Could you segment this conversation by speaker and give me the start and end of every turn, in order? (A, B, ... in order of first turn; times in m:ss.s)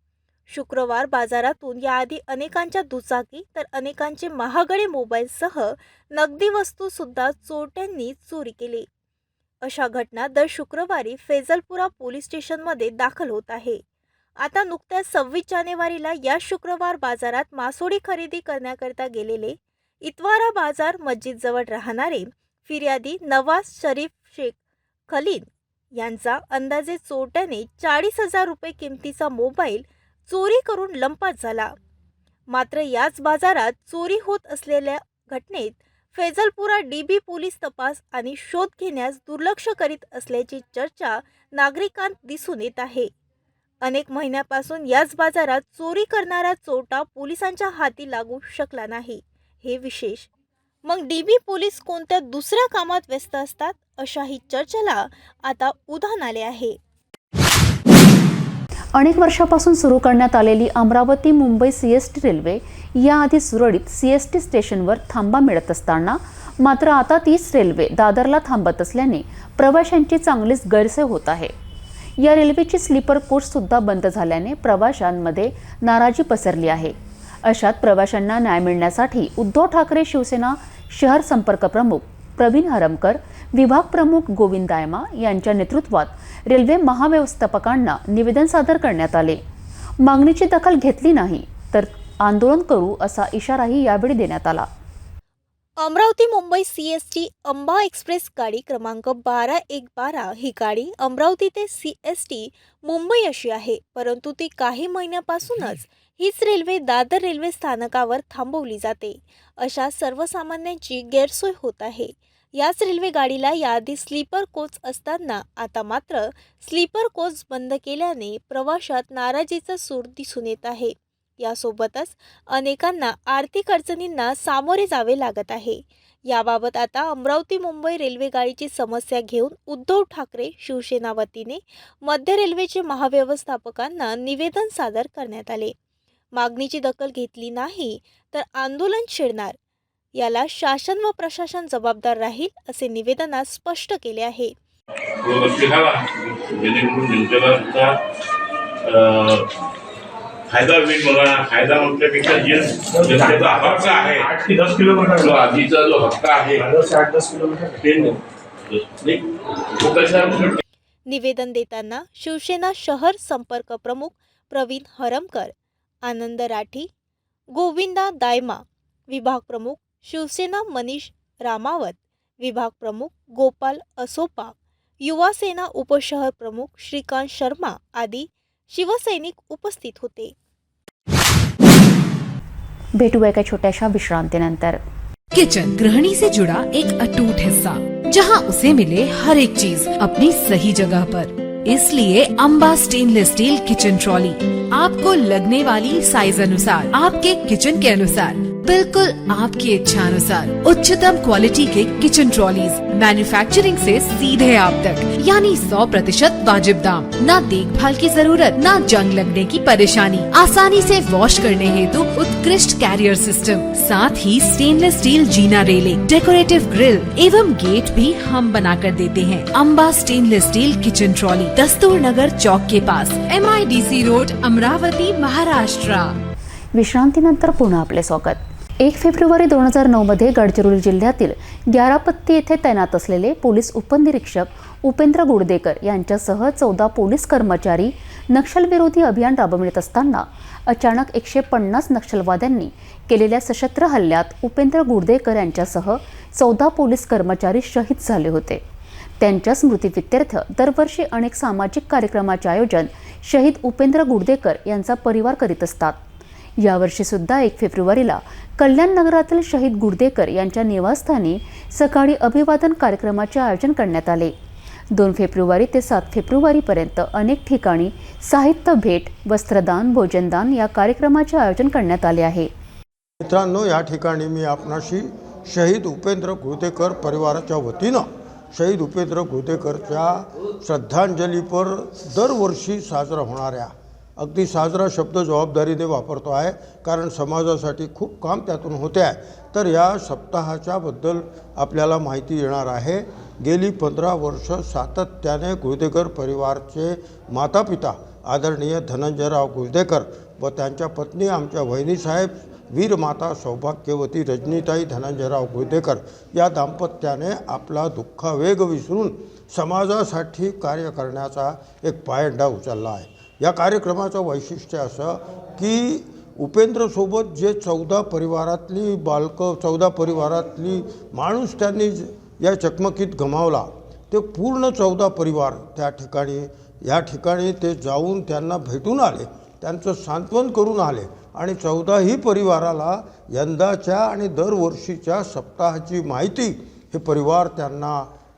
0:00.5-0:08.9 A
0:09.6-0:13.8 A
0:14.4-0:24.6 A
0:25.1-0:31.7 A
0:32.5-0:43.1 A
0:43.8-0:50.3 A
0:50.8-0:56.8 A
0:58.9-1:11.5 B
1:12.2-1:29.4 B
1:30.0-1:34.7 B
1:35.8-2:15.7 A
2:16.3-2:19.6 A
2:20.2-2:24.5 A
2:25.2-2:28.0 C
2:28.8-2:29.5 C
2:30.5-2:34.3 C
2:32.9-2:35.4 D
2:35.1-2:36.6 C
2:36.6-2:38.1 D
2:37.8-2:38.2 C
2:38.7-2:39.2 C
2:39.8-2:40.6 C
2:41.1-2:45.5 A
2:46.0-2:46.9 A
2:47.5-3:00.3 A
3:03.0-3:04.8 B
3:05.3-3:46.2 E
3:46.7-4:08.6 B
4:09.2-4:16.0 B
4:16.6-4:24.3 B
4:24.9-4:32.5 B
4:33.2-5:38.1 F